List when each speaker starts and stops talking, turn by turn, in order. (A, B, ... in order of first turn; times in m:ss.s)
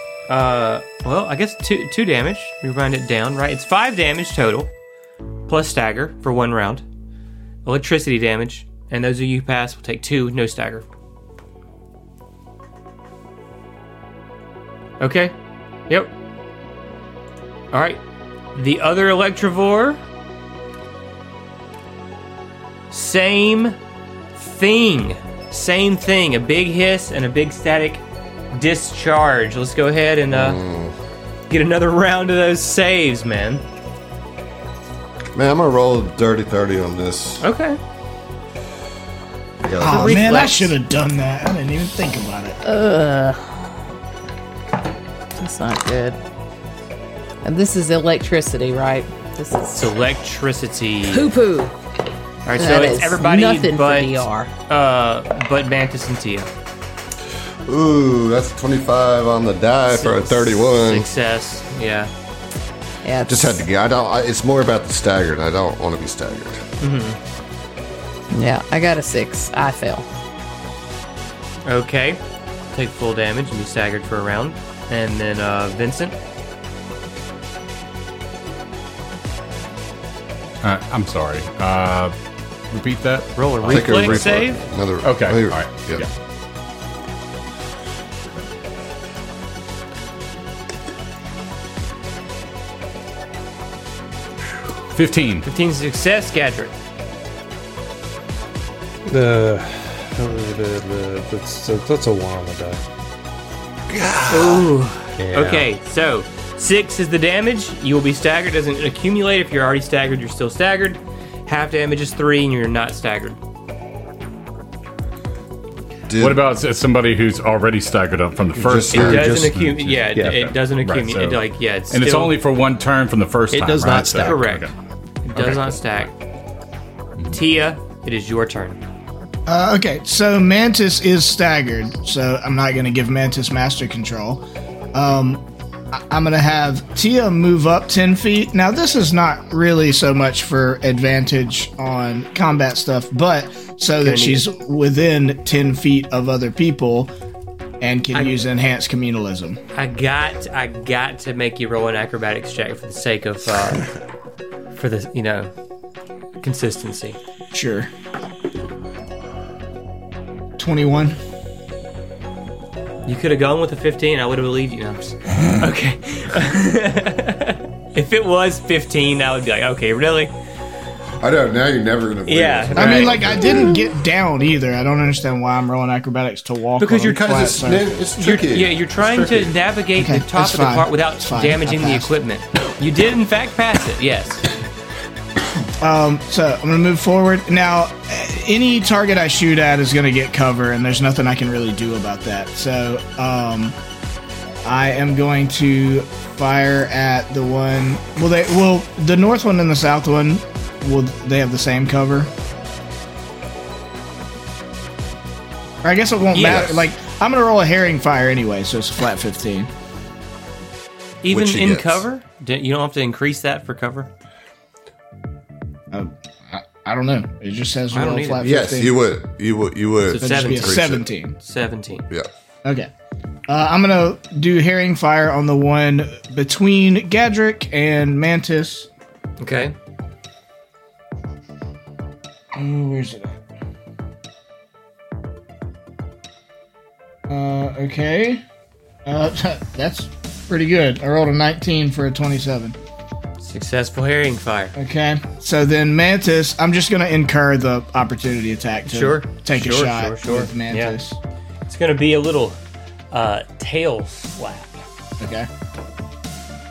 0:00.3-0:04.7 A
0:05.5-0:06.8 A
0:07.6-0:10.8 A
0:15.0-0:15.3 A
0:17.7-0:18.0 A
0:18.5-0:20.0 A
0:22.9-0:23.8 A
0:24.4-0:30.6 A
0:30.3-0:30.9 B
0:31.5-0:33.6 A
0:35.3-0:37.4 B
0:37.4-0:37.8 A
0:39.6-0:40.4 B
0:39.8-0:42.6 C
0:39.8-0:40.7 A
0:42.6-0:43.7 D
0:45.3-0:46.2 D
0:47.4-0:49.9 D
0:49.7-0:51.3 A
0:51.1-0:51.7 D
0:52.4-0:56.5 A
0:52.5-0:54.5 D
0:57.6-1:01.1 B
0:59.9-1:02.1 A
1:03.0-1:03.6 D
1:03.3-1:06.6 B
1:06.8-1:07.2 A
1:08.3-1:10.0 D
1:11.6-1:12.2 A
1:12.7-1:16.2 A
1:20.6-1:22.1 E
1:22.7-1:24.2 E
1:23.4-1:24.6 A
1:23.6-1:26.0 B
1:25.0-1:26.1 E
1:34.9-1:35.4 E
1:35.4-1:36.7 A
1:39.0-1:42.8 F
1:43.9-1:44.7 B
1:44.3-1:53.4 A
1:45.2-1:45.7 F
1:56.1-1:56.4 B
1:56.1-2:04.7 E
1:58.6-1:59.4 B
1:58.9-2:02.3 A
1:59.0-1:59.5 F
2:00.1-2:00.5 F
2:03.5-2:04.4 F
2:04.2-2:04.7 A
2:05.2-2:06.1 A
2:05.3-2:05.6 E
2:07.3-2:08.8 A
2:09.5-2:27.1 C
2:24.0-2:24.4 A
2:27.8-2:29.6 C
2:29.7-2:33.9 A
2:34.8-2:35.5 A
2:36.4-2:37.2 A
2:37.5-2:37.9 C
2:40.6-2:41.2 C
2:43.0-2:50.3 A
2:51.2-2:53.6 B
2:52.2-2:53.2 A
2:52.8-2:58.0 C
2:56.8-2:57.2 A
2:57.1-2:59.5 B
2:58.2-3:04.5 A
3:00.0-3:02.1 C
3:05.8-3:13.8 C
3:14.6-3:22.3 C
3:25.8-3:29.7 C
3:26.3-3:26.8 A
3:26.4-3:26.8 B
3:31.2-3:34.1 A
3:31.3-3:32.0 B
3:35.9-3:38.9 C
3:37.9-3:38.4 A
3:38.4-3:41.0 B
3:40.1-3:42.1 A
3:40.2-3:41.3 C
3:42.6-3:42.9 C
3:43.5-3:48.9 C
3:49.4-3:49.7 A
3:52.5-3:53.4 C
3:57.3-3:58.4 C
3:59.0-4:02.8 C
4:03.4-4:04.7 A
4:04.7-4:11.2 C
4:08.9-4:11.0 A
4:11.6-4:12.6 A
4:13.1-4:14.8 A
4:15.2-4:15.5 C